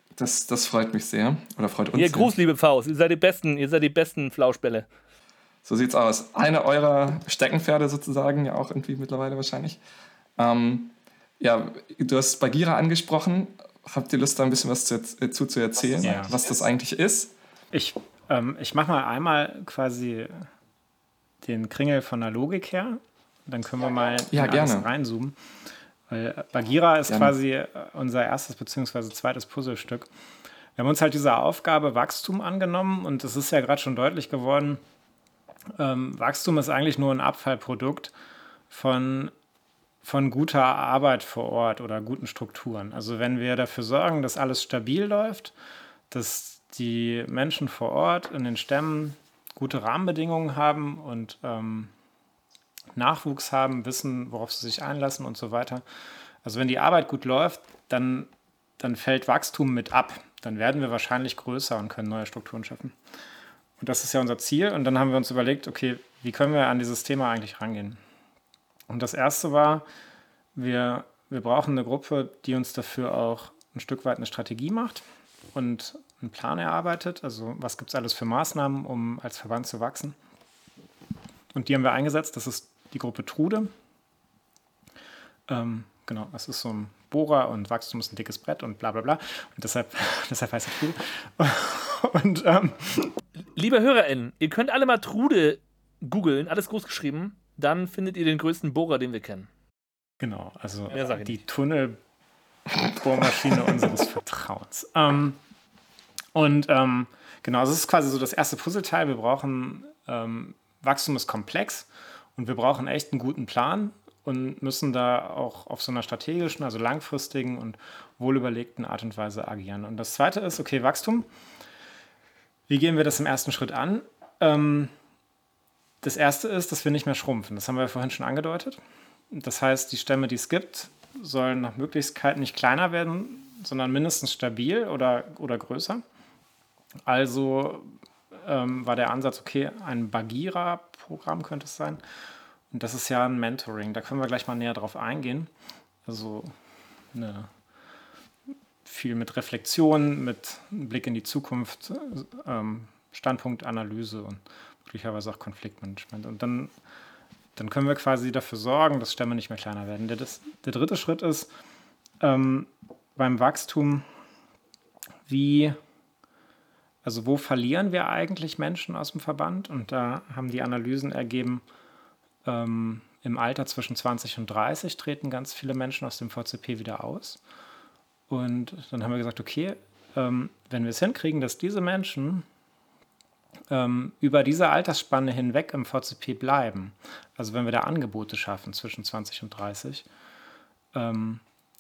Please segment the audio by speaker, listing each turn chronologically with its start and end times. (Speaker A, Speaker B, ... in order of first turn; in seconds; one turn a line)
Speaker A: 0.2-2.3
Speaker B: 1.9-4.9
Speaker A: 5.7-9.8
Speaker A: 10.4-17.4
Speaker C: 16.0-16.4
Speaker C: 17.7-20.5
Speaker C: 21.4-25.4
Speaker A: 24.3-24.9
Speaker C: 26.1-30.1
Speaker C: 30.8-34.8
Speaker C: 35.8-38.1
Speaker C: 38.7-39.3
Speaker C: 40.0-45.5
Speaker C: 46.1-51.9
Speaker C: 52.9-55.8
Speaker C: 56.4-63.0
Speaker C: 63.8-68.0
Speaker C: 68.9-69.8
Speaker C: 70.5-80.2
Speaker C: 81.5-83.7
Speaker C: 85.5-93.2
Speaker B: 93.5-99.5
Speaker C: 100.2-102.0
Speaker B: 100.9-101.4
Speaker C: 102.9-105.4
Speaker C: 106.3-121.3
Speaker C: 122.7-124.9
Speaker C: 126.0-128.8
Speaker C: 129.3-136.0
Speaker C: 137.1-142.0
Speaker C: 142.7-145.5
Speaker C: 146.1-146.5
Speaker C: 147.1-147.5
Speaker C: 148.8-156.7
Speaker C: 157.6-161.5
Speaker C: 162.2-164.1
Speaker C: 165.3-165.8
Speaker C: 167.0-171.6
Speaker C: 172.4-177.4
Speaker C: 178.3-182.5
Speaker C: 183.7-190.1
Speaker C: 190.9-191.4